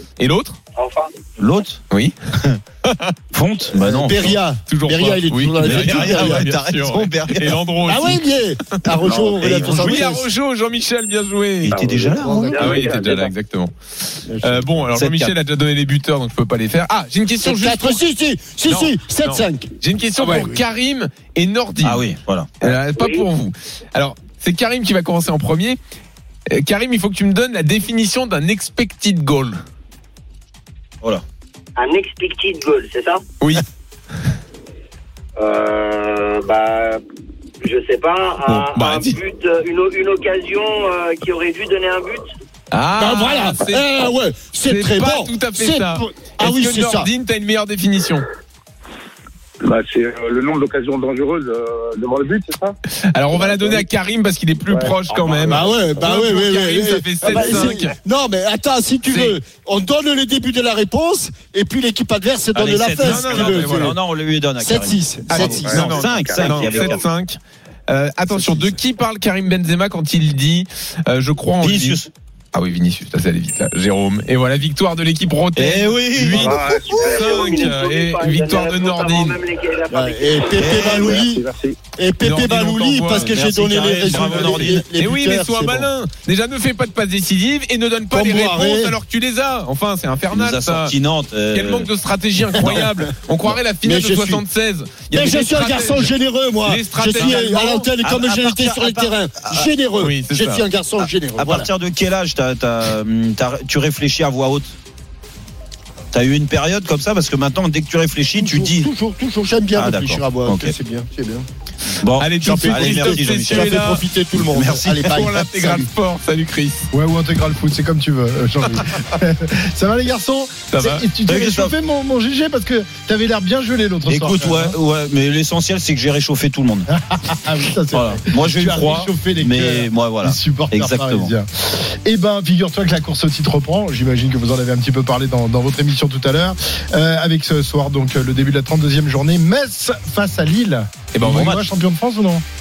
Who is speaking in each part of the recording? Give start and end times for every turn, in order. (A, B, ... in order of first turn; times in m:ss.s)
0:00.2-0:00.6 A
0:00.8-0:01.1 B
0:01.4-0:01.8 C
0:02.8-0:03.1 A
0:03.3-0:04.4 C
0:03.8-0:06.5 D
0:04.7-0:08.2 A
0:05.6-0:07.6 C
0:07.8-0:10.3 D
0:09.0-0:09.7 E
0:09.4-0:10.0 C
0:09.5-0:11.8 A
0:11.6-0:12.5 C
0:11.6-0:13.4 E
0:12.2-0:12.9 D
0:12.4-0:18.0 A
0:14.2-0:14.8 D
0:14.9-0:15.3 C
0:17.4-0:20.6 D
0:18.6-0:22.1 A
0:21.8-0:22.6 C
0:22.6-0:25.8 A
0:22.9-0:23.2 B
0:26.5-0:29.6 A
0:31.8-0:33.2 B
0:35.4-0:37.0 B
0:37.6-0:42.2 B
0:38.4-0:39.2 A
0:42.7-0:44.0 A
0:43.0-0:47.1 D
0:44.6-0:48.2 A
0:49.6-0:52.8 E
0:53.0-0:57.9 A
0:53.3-0:53.8 E
0:54.7-0:56.2 E
0:55.4-1:04.0 D
0:59.1-0:59.4 A
1:02.5-1:07.0 C
1:03.0-1:03.9 A
1:04.6-1:05.9 D
1:05.3-1:12.0 A
1:05.4-1:07.0 E
1:08.4-1:08.7 C
1:11.6-1:12.1 C
1:12.5-1:19.4 A
1:15.6-1:16.7 C
1:16.2-1:17.7 E
1:16.9-1:20.6 B
1:19.9-1:25.9 D
1:20.6-1:21.2 C
1:20.6-1:21.8 E
1:22.2-1:30.9 A
1:23.1-1:24.8 C
1:28.1-1:28.9 D
1:30.3-1:31.9 C
1:31.5-1:37.9 A
1:33.8-1:34.4 D
1:35.1-1:41.7 D
1:37.1-1:37.4 C
1:38.0-1:39.7 C
1:40.0-1:40.6 A
1:41.0-1:44.8 C
1:46.1-1:48.9 C
1:48.4-1:51.4 D
1:49.7-1:50.8 C
1:52.0-1:53.8 C
1:52.2-1:54.0 A
1:52.4-1:55.9 D
1:54.4-1:55.0 C
1:55.0-1:56.9 A
1:56.9-2:04.8 F
2:00.7-2:01.0 A
2:01.3-2:01.8 C
2:04.1-2:06.9 C
2:06.9-2:22.4 F
2:07.9-2:11.3 C
2:21.2-2:21.6 C